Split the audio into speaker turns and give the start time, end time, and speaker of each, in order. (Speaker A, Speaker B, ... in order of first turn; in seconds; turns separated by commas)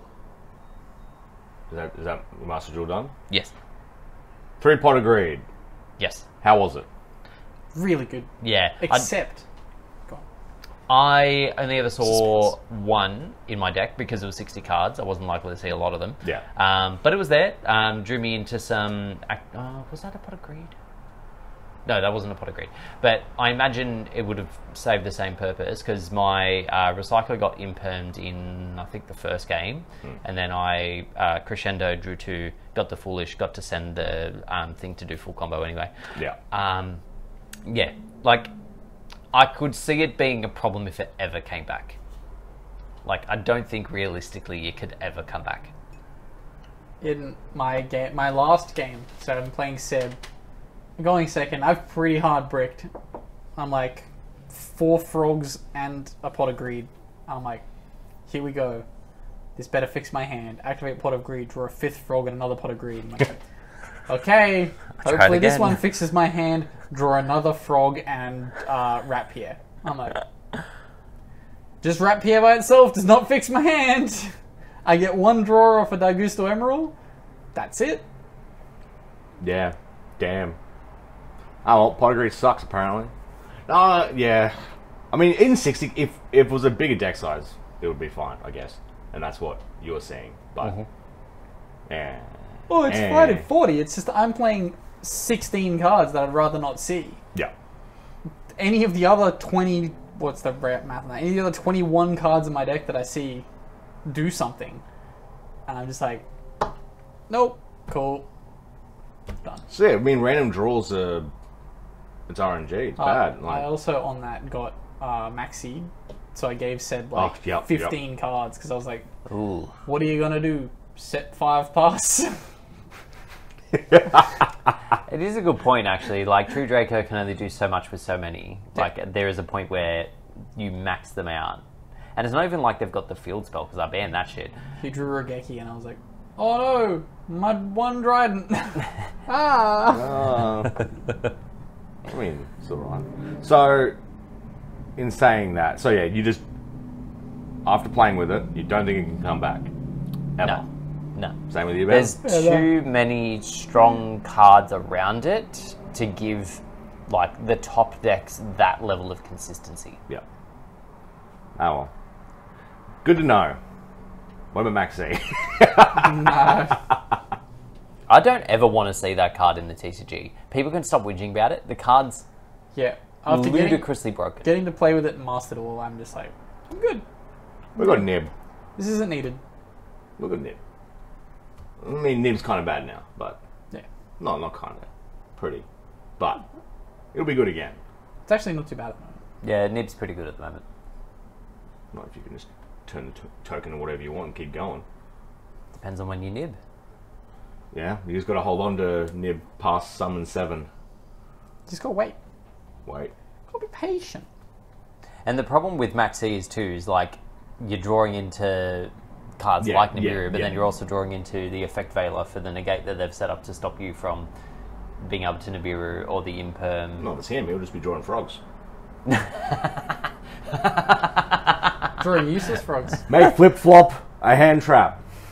Speaker A: 1.7-3.1, Speaker A: 4.6-5.4, Speaker B: 6.0-6.2, Speaker A: 6.4-6.8, Speaker C: 7.7-9.4, Speaker B: 8.4-9.1, Speaker B: 10.9-20.7, Speaker B: 21.9-35.9, Speaker B: 36.5-37.0, Speaker B: 37.6-38.5, Speaker B: 39.3-42.0, Speaker B: 43.0-45.7, Speaker C: 47.0-50.2, Speaker C: 51.0-52.9, Speaker C: 53.5-57.6, Speaker C: 58.3-58.8, Speaker C: 59.5-63.4, Speaker C: 64.1-70.2, Speaker B: 65.0-65.8, Speaker C: 71.8-76.9, Speaker C: 77.5-78.0, Speaker A: 79.4-80.6, Speaker A: 81.6-83.1, Speaker A: 83.7-84.5, Speaker A: 85.1-90.8, Speaker A: 91.9-93.4, Speaker C: 92.7-97.2, Speaker C: 98.5-103.4, Speaker C: 104.0-104.8, Speaker C: 105.7-106.2, Speaker C: 107.3-108.2, Speaker A: 109.7-111.3, Speaker A: 112.3-113.7, Speaker C: 113.0-119.1, Speaker A: 117.1-118.0, Speaker B: 119.3-119.7, Speaker C: 119.8-122.4, Speaker A: 123.9-124.2, Speaker B: 125.0-131.6, Speaker B: 132.2-134.5, Speaker C: 134.8-140.2, Speaker A: 139.8-140.8, Speaker A: 142.1-143.9, Speaker A: 145.0-146.4, Speaker A: 147.6-149.7, Speaker A: 150.4-150.6, Speaker B: 151.1-160.0, Speaker A: 151.5-152.2, Speaker C: 152.2-152.7, Speaker A: 161.6-161.9, Speaker A: 163.0-163.6, Speaker A: 164.5-167.2, Speaker C: 165.9-166.8, Speaker B: 168.1-172.2, Speaker C: 172.7-173.9, Speaker B: 173.3-174.5, Speaker C: 174.4-177.0, Speaker C: 177.8-178.0, Speaker A: 177.8-178.3, Speaker C: 178.8-179.4, Speaker A: 180.2-180.6, Speaker A: 181.8-183.4, Speaker A: 184.2-185.6, Speaker A: 186.2-186.4, Speaker A: 187.1-187.8, Speaker C: 188.3-189.2, Speaker B: 189.4-190.6, Speaker A: 191.9-194.8, Speaker B: 195.7-196.6, Speaker A: 197.7-200.7, Speaker C: 201.7-202.2, Speaker A: 202.8-203.1, Speaker C: 203.5-204.3, Speaker B: 205.2-214.3, Speaker A: 209.6-210.6, Speaker B: 215.0-217.1, Speaker A: 217.0-218.4, Speaker B: 219.1-219.7, Speaker B: 220.7-221.2, Speaker C: 222.0-223.1, Speaker A: 223.1-225.0